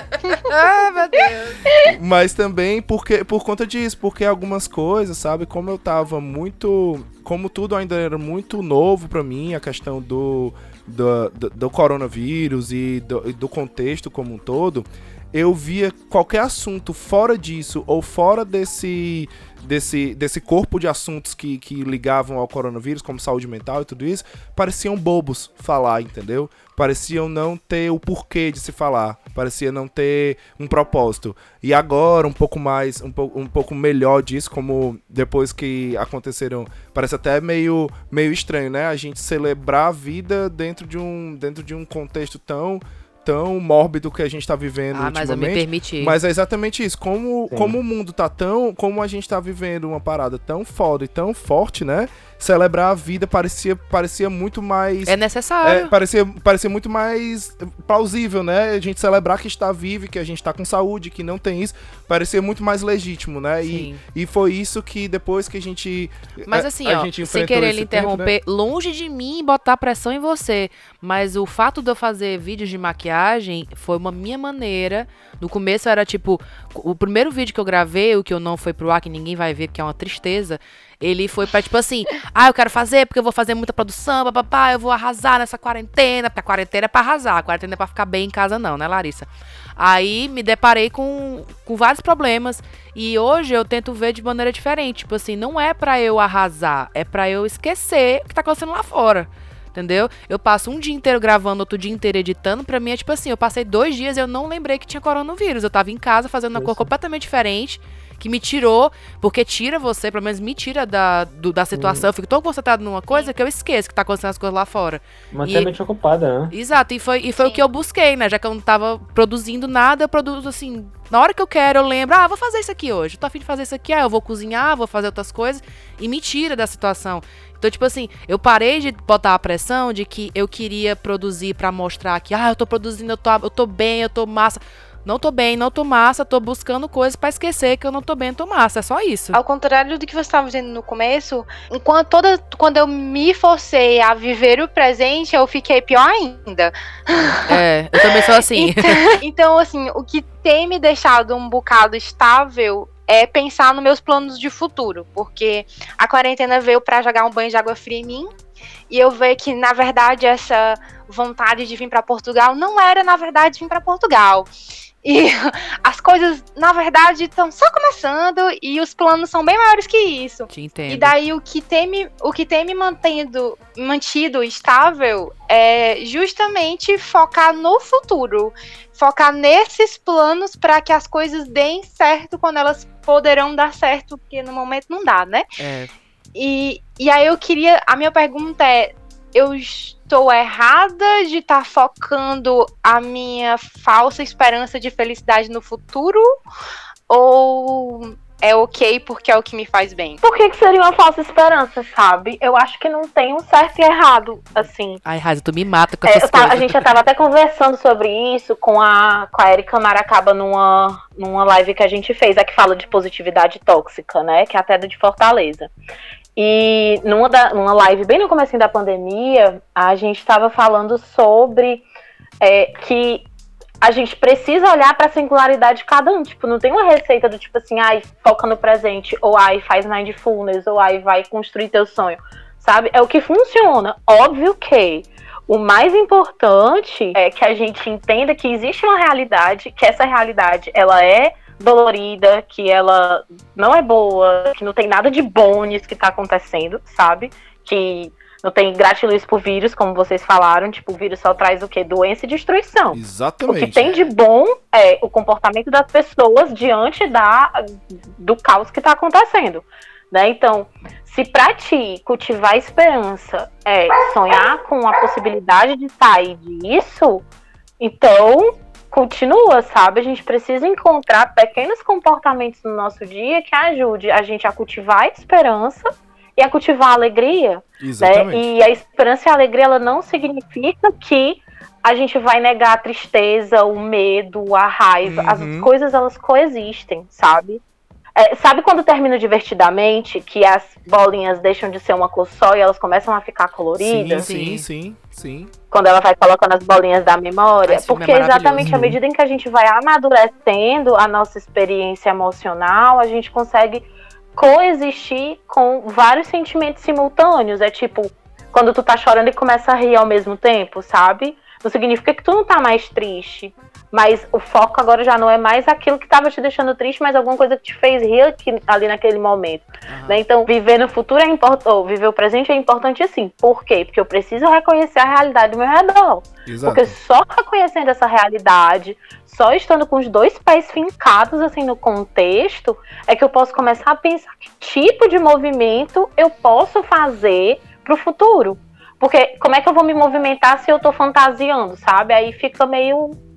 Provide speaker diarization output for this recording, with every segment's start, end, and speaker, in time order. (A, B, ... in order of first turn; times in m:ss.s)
0:00.4-0:01.6 A
0:01.8-1:08.3 B
0:44.9-0:46.2 A
0:47.5-0:47.8 C
0:55.1-0:55.9 A
1:03.7-1:04.0 A
1:06.5-1:55.7 A
1:46.6-1:46.9 C
1:51.7-1:52.1 C
1:53.1-1:53.3 D
1:55.3-1:56.5 C
1:56.5-2:19.4 A
1:57.4-1:57.6 D
2:19.3-2:38.3 D
2:27.5-2:29.2 A
2:38.9-2:44.5 D
2:45.0-3:05.5 D
2:50.5-2:51.1 A
3:05.6-3:05.9 A
3:06.4-3:16.3 D
3:17.1-3:20.2 D
3:20.2-3:25.0 E
3:25.1-3:26.9 A
3:26.0-3:35.7 E
3:36.4-3:41.8 E
3:42.4-3:43.3 E
3:43.8-4:17.6 E
4:12.9-4:13.9 B
4:18.2-4:27.2 E
4:27.8-4:47.6 E
4:37.8-4:38.4 B
4:45.0-4:45.7 B
4:48.2-4:54.3 E
4:53.8-4:55.5 B
4:54.2-4:54.6 A
4:55.7-5:43.2 E
4:57.6-4:58.7 A
4:58.6-4:59.0 C
5:19.9-5:20.2 A
5:26.5-5:27.0 B